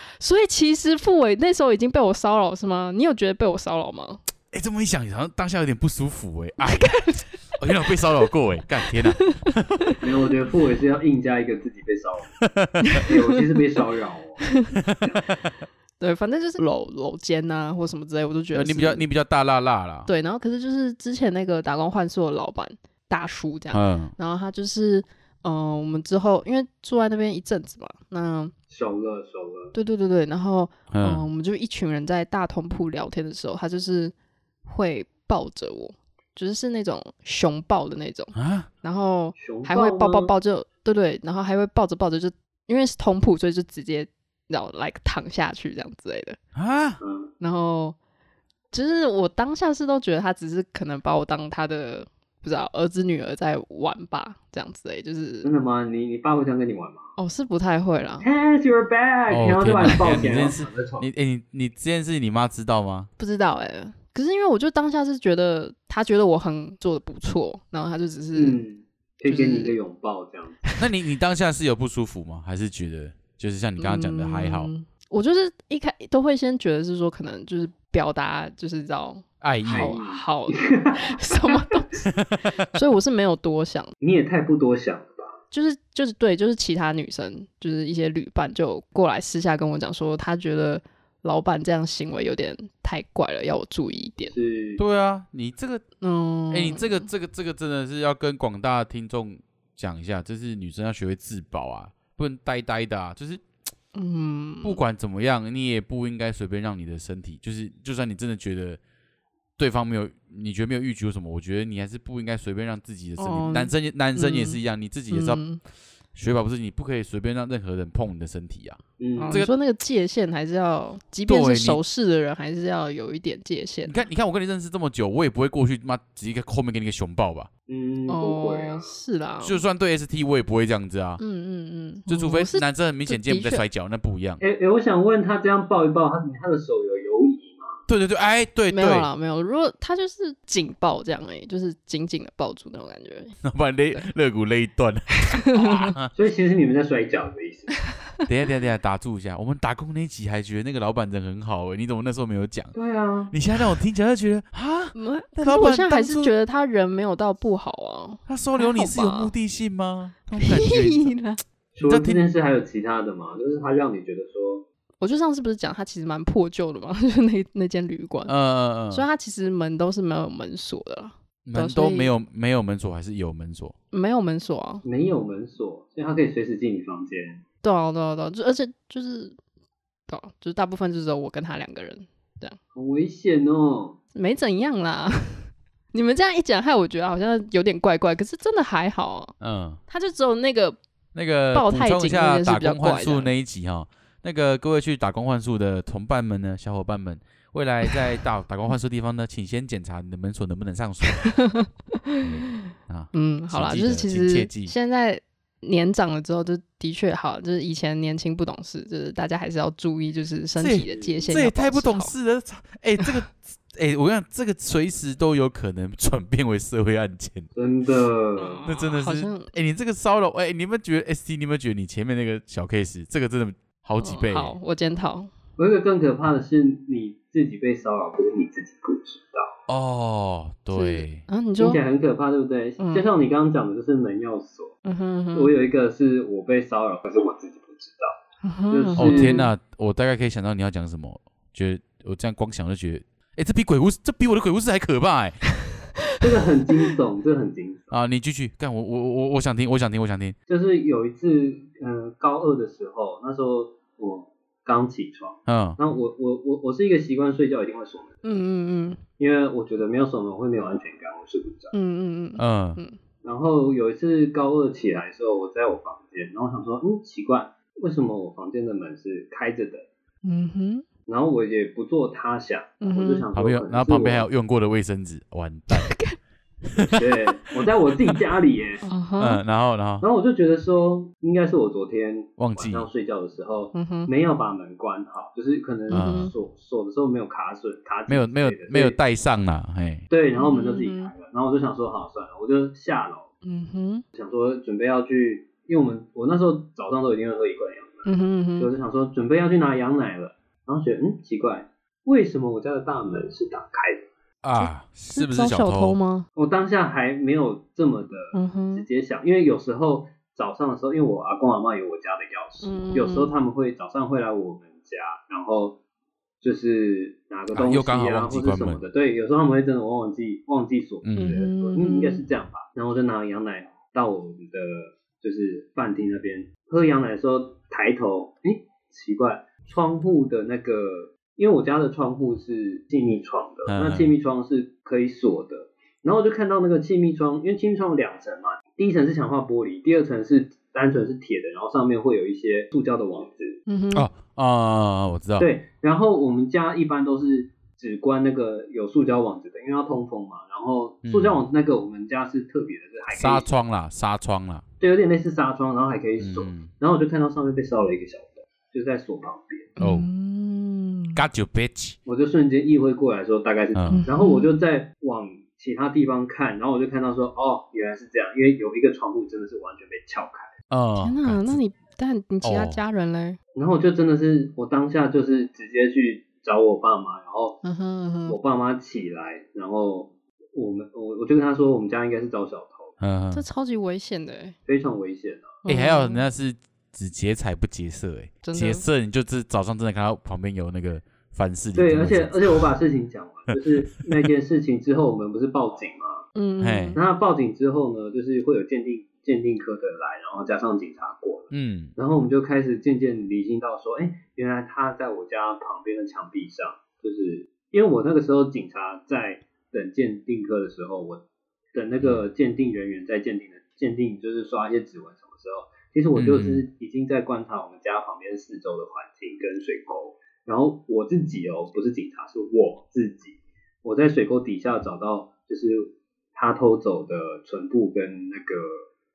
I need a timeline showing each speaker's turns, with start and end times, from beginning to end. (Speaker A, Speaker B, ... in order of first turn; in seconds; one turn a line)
Speaker A: 0.2-4.2
Speaker B: 4.5-9.7
Speaker A: 6.7-7.2
Speaker C: 10.0-12.4
Speaker B: 12.4-13.0
Speaker A: 12.9-13.2
Speaker C: 13.1-14.5
Speaker A: 14.5-14.7
Speaker A: 16.0-19.1
Speaker B: 18.5-20.1
Speaker A: 20.1-28.5
Speaker B: 23.7-24.1
Speaker C: 28.7-29.7
Speaker A: 29.7-34.1
Speaker B: 30.9-31.2
Speaker A: 34.6-46.4
Speaker B: 38.3-38.7
Speaker C: 39.4-40.3
Speaker B: 46.5-47.0
Speaker C: 47.0-47.3
Speaker A: 47.4-48.0
Speaker A: 48.7-55.5
Speaker C: 55.4-57.1
Speaker A: 57.2-58.3
Speaker C: 58.2-61.1
Speaker B: 59.3-63.1
Speaker A: 63.2-68.6
Speaker C: 68.3-70.6
Speaker A: 69.3-69.8
Speaker B: 70.8-74.7
Speaker A: 73.8-83.9
Speaker B: 79.4-80.0
Speaker C: 79.7-81.6
Speaker B: 82.1-82.6
Speaker C: 84.0-85.4
Speaker A: 85.5-94.3
Speaker C: 94.3-94.8
Speaker B: 94.8-95.8
Speaker A: 96.0-97.1
Speaker B: 96.5-103.4
Speaker A: 103.9-104.8
Speaker B: 104.6-108.8
Speaker B: 109.6-115.4
Speaker A: 113.2-115.6
Speaker B: 116.1-119.5
Speaker C: 119.0-119.4
Speaker A: 119.2-124.0
Speaker B: 121.3-121.8
Speaker B: 123.9-127.5
Speaker C: 127.7-128.9
Speaker A: 128.1-129.6
Speaker B: 129.4-131.2
Speaker A: 131.2-133.6
Speaker B: 132.1-134.4
Speaker C: 134.4-137.8
Speaker B: 137.9-139.1
Speaker A: 138.7-143.4
Speaker B: 143.4-146.1
Speaker A: 145.3-145.9
Speaker C: 146.1-147.7
Speaker B: 148.3-152.7
Speaker C: 152.7-153.4
Speaker B: 153.3-156.3
Speaker A: 154.9-159.3
Speaker B: 158.3-161.1
Speaker A: 160.4-161.4
Speaker C: 161.7-164.6
Speaker B: 161.8-162.2
Speaker A: 165.0-168.3
Speaker B: 168.3-169.1
Speaker A: 168.9-172.1
Speaker B: 171.4-173.7
Speaker A: 173.9-174.8
Speaker C: 174.8-177.4
Speaker A: 177.6-179.4
Speaker A: 180.1-182.6
Speaker C: 182.7-184.0
Speaker A: 184.1-189.3
Speaker B: 189.4-189.8
Speaker A: 189.9-190.8
Speaker B: 191.1-201.3
Speaker A: 191.5-193.3
Speaker A: 201.2-212.1
Speaker B: 202.2-204.7
Speaker B: 210.6-217.5
Speaker C: 210.9-211.3
Speaker C: 217.6-218.6
Speaker A: 218.4-219.5
Speaker B: 218.6-224.5
Speaker A: 224.0-225.3
Speaker C: 225.6-229.5
Speaker B: 229.7-231.2
Speaker A: 230.7-231.8
Speaker C: 231.6-234.7
Speaker A: 232.8-233.1
Speaker A: 234.8-235.5
Speaker C: 235.3-238.2
Speaker A: 238.4-239.5
Speaker C: 238.7-239.4
Speaker B: 239.0-245.4
Speaker C: 246.2-247.9
Speaker B: 247.9-250.4
Speaker C: 250.5-258.2
Speaker B: 255.5-255.8
Speaker A: 258.2-259.0
Speaker C: 259.2-261.7
Speaker A: 261.7-263.0
Speaker B: 262.4-262.8
Speaker C: 263.2-269.9
Speaker A: 270.2-270.9
Speaker C: 271.1-274.3
Speaker A: 272.8-273.3
Speaker B: 273.3-275.9
Speaker A: 275.7-276.2
Speaker C: 276.9-278.8
Speaker A: 278.9-279.4
Speaker B: 279.2-280.1
Speaker C: 280.0-289.0
Speaker B: 282.4-282.9
Speaker A: 283.7-284.1
Speaker B: 285.9-286.3
Speaker A: 285.9-286.3
Speaker B: 288.1-290.1
Speaker C: 290.1-293.3
Speaker A: 290.4-291.1
Speaker A: 293.4-294.0
Speaker C: 294.1-304.1
Speaker A: 298.1-298.7
Speaker B: 304.4-305.9
Speaker A: 304.6-306.3
Speaker C: 306.4-315.8
Speaker A: 308.3-308.9
Speaker A: 312.6-313.3
Speaker C: 316.4-343.6
Speaker B: 317.5-318.8
Speaker B: 321.0-321.4
Speaker A: 321.2-322.2
Speaker B: 333.7-334.1
Speaker A: 343.7-344.1
Speaker B: 343.9-345.5
Speaker C: 345.4-353.5
Speaker B: 351.0-351.4
Speaker B: 353.1-354.6
Speaker C: 354.8-359.7
Speaker B: 356.2-356.7
Speaker A: 359.8-361.2
Speaker B: 359.8-360.1
Speaker B: 361.1-362.0
Speaker C: 362.1-370.5
Speaker B: 363.7-364.1
Speaker A: 363.9-364.5
Speaker B: 370.7-371.6
Speaker A: 371.0-373.4
Speaker B: 372.4-372.8
Speaker C: 373.6-377.6
Speaker A: 377.6-378.4
Speaker C: 378.3-382.9
Speaker B: 383.0-383.4
Speaker A: 383.3-384.6
Speaker C: 384.7-385.6
Speaker A: 385.6-386.2
Speaker B: 385.6-392.6
Speaker A: 388.4-388.8
Speaker C: 391.8-396.2
Speaker A: 396.4-397.0
Speaker B: 396.6-397.0
Speaker C: 396.9-411.2
Speaker B: 401.5-401.9
Speaker C: 411.7-428.8
Speaker B: 416.1-416.6